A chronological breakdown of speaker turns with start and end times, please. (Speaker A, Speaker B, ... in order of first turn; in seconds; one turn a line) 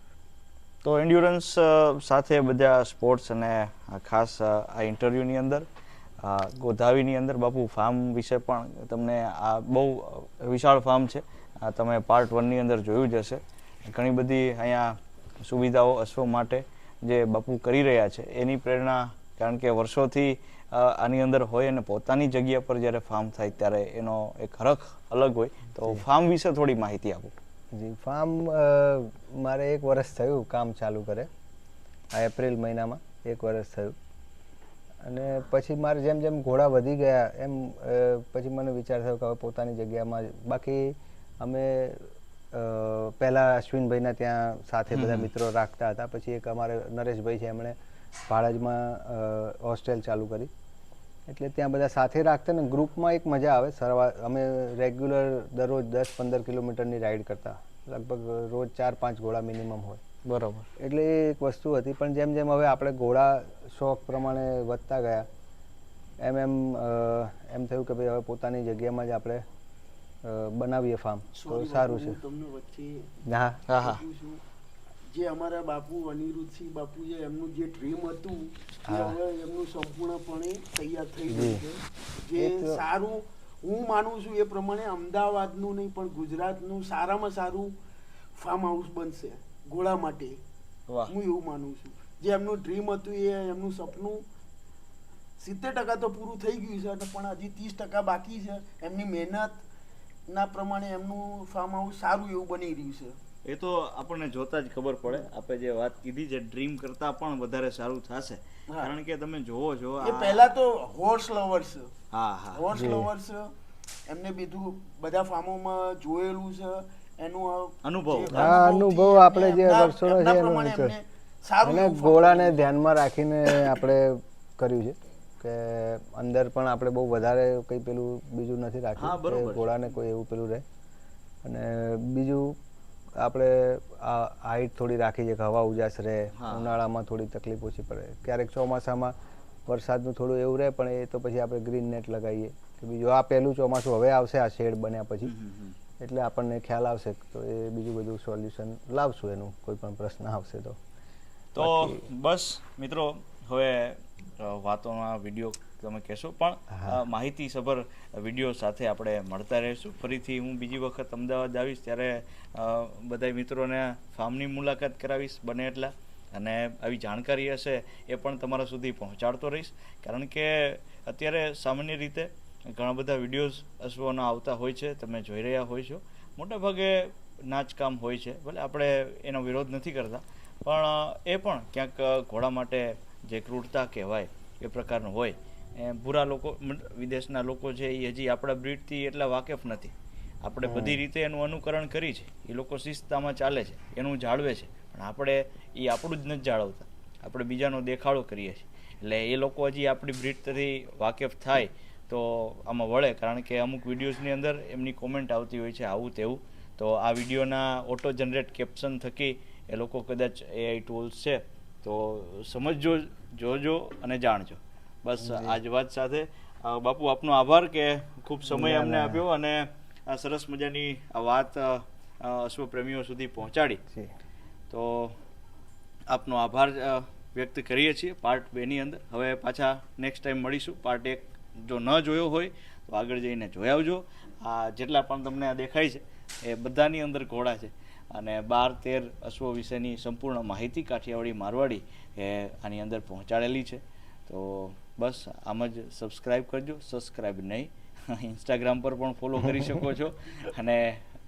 Speaker A: 0.8-5.7
Speaker A: 6.2-27.3
Speaker B: 27.7-31.3
Speaker B: 32.1-34.0
Speaker B: 35.0-47.8
Speaker A: 44.9-45.3
Speaker B: 48.3-50.5
Speaker B: 51.3-60.0
Speaker A: 60.3-60.7
Speaker B: 60.8-65.3
Speaker B: 66.2-69.4
Speaker B: 70.2-72.2
Speaker C: 71.3-73.1
Speaker B: 73.2-73.6
Speaker A: 73.7-74.0
Speaker C: 73.7-74.4
Speaker C: 75.1-87.7
Speaker B: 78.9-79.2
Speaker B: 81.3-81.6
Speaker B: 82.4-82.8
Speaker C: 88.4-90.4
Speaker A: 90.9-91.1
Speaker C: 91.1-94.2
Speaker C: 95.4-99.6
Speaker C: 100.3-103.2
Speaker A: 103.5-110.4
Speaker C: 110.0-111.9
Speaker A: 112.1-112.7
Speaker C: 112.5-113.5
Speaker B: 112.7-113.1
Speaker C: 114.1-122.6
Speaker A: 117.8-118.6
Speaker B: 118.3-121.0
Speaker B: 121.6-130.6
Speaker A: 129.0-129.8
Speaker B: 131.4-132.6
Speaker B: 133.2-139.1
Speaker A: 136.4-136.8
Speaker B: 139.7-145.3
Speaker A: 145.3-145.8
Speaker B: 146.0-150.8
Speaker A: 151.6-223.8
Speaker B: 151.6-152.0
Speaker B: 156.7-157.0
Speaker B: 190.6-191.0
Speaker B: 215.2-215.6
Speaker B: 218.5-219.2
Speaker A: 224.7-225.2
Speaker A: 226.1-251.0